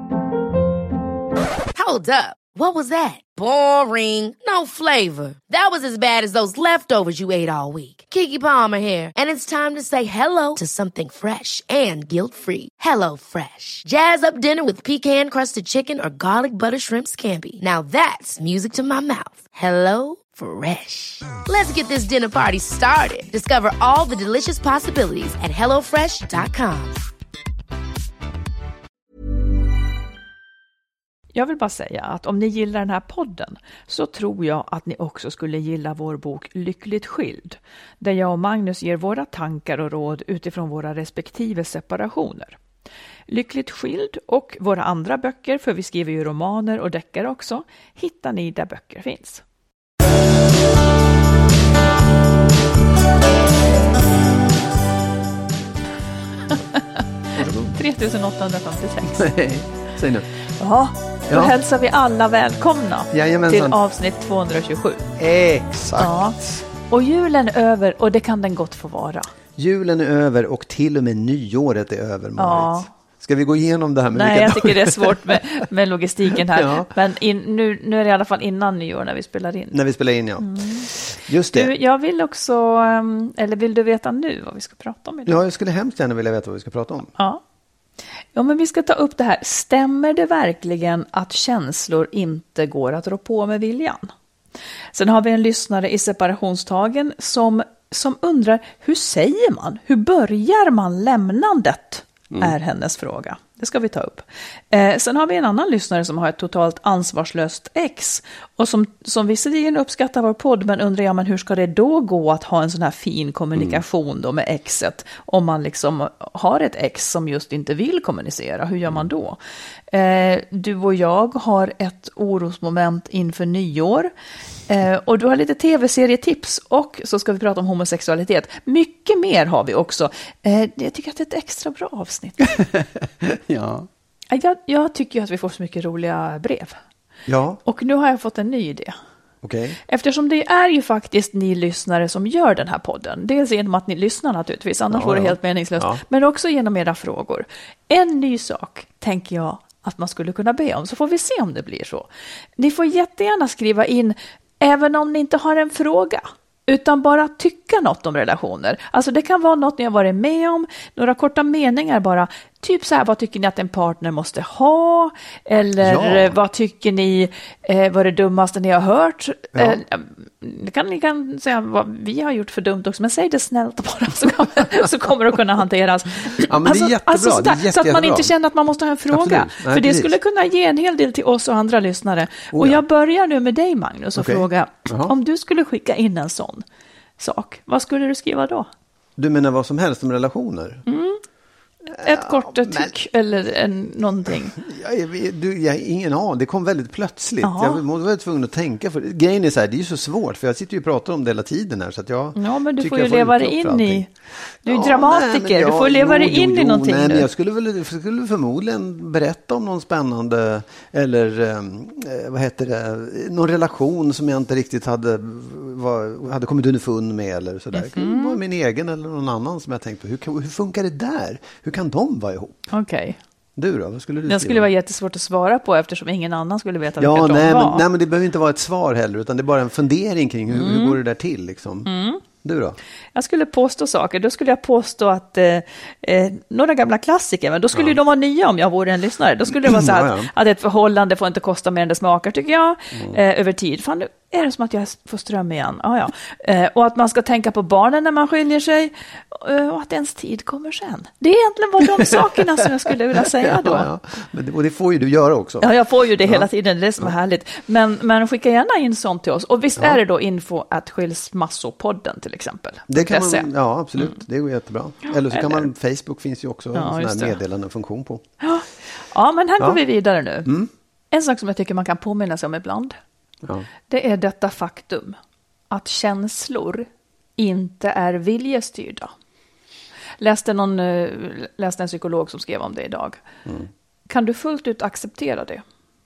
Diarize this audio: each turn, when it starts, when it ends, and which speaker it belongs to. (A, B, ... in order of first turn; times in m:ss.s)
0:01.7-0:26.9 A
0:31.3-0:42.6 B
0:43.3-0:49.4 B
0:56.5-0:56.8 B
0:57.3-0:57.8 C
0:57.6-0:59.3 B
0:59.0-1:00.3 C
1:00.6-1:05.1 B
1:01.3-1:01.6 C
1:03.1-1:03.8 C
1:05.2-1:06.6 C
1:06.0-1:09.3 B
1:09.6-1:15.4 C
1:12.4-1:12.9 B
1:14.1-1:19.8 B
1:16.4-1:16.9 C
1:19.7-1:21.7 C
1:20.4-1:20.9 B
1:21.5-1:25.4 B
1:25.2-1:27.1 C
1:28.3-1:34.1 B
1:34.9-1:59.4 B
1:53.5-1:53.8 C
1:59.9-2:04.1 B
2:04.7-2:12.5 B
2:12.4-2:13.9 C
2:14.3-2:16.8 B
2:17.3-2:17.6 C
2:17.6-2:19.0 B
2:19.4-2:19.8 C
2:19.9-3:06.6 B
2:24.9-2:26.0 C
2:45.8-2:46.3 C
2:49.5-2:49.8 C
2:56.4-2:58.3 C
2:59.1-3:00.1 C
3:02.5-3:02.8 C
3:04.2-3:05.1 C
3:07.2-3:08.7 B
3:09.2-3:10.8 C
3:10.9-3:11.2 B
3:11.9-3:12.9 C
3:11.9-3:14.6 B
3:14.5-3:24.1 C
3:17.4-3:17.8 B
3:22.4-3:24.1 B
3:24.6-3:42.7 C
3:24.6-3:27.3 B
3:37.7-3:38.4 B
3:42.7-3:43.2 B
3:43.6-3:44.7 C
3:44.3-3:47.8 B
3:47.0-3:52.8 C
3:50.5-3:51.0 B
3:51.8-3:52.2 B
3:53.1-4:13.9 B
3:59.5-4:00.3 C
4:12.0-4:12.2 C
4:13.1-4:15.7 C
4:15.6-4:24.2 B
4:22.9-4:28.2 C
4:25.1-4:25.7 B
4:26.7-4:27.4 B
4:28.4-4:30.5 B
4:30.4-4:30.7 C
4:31.1-4:33.0 B
4:33.9-4:35.2 B
4:35.7-4:39.1 B
4:40.2-4:43.2 B
4:44.1-4:45.6 B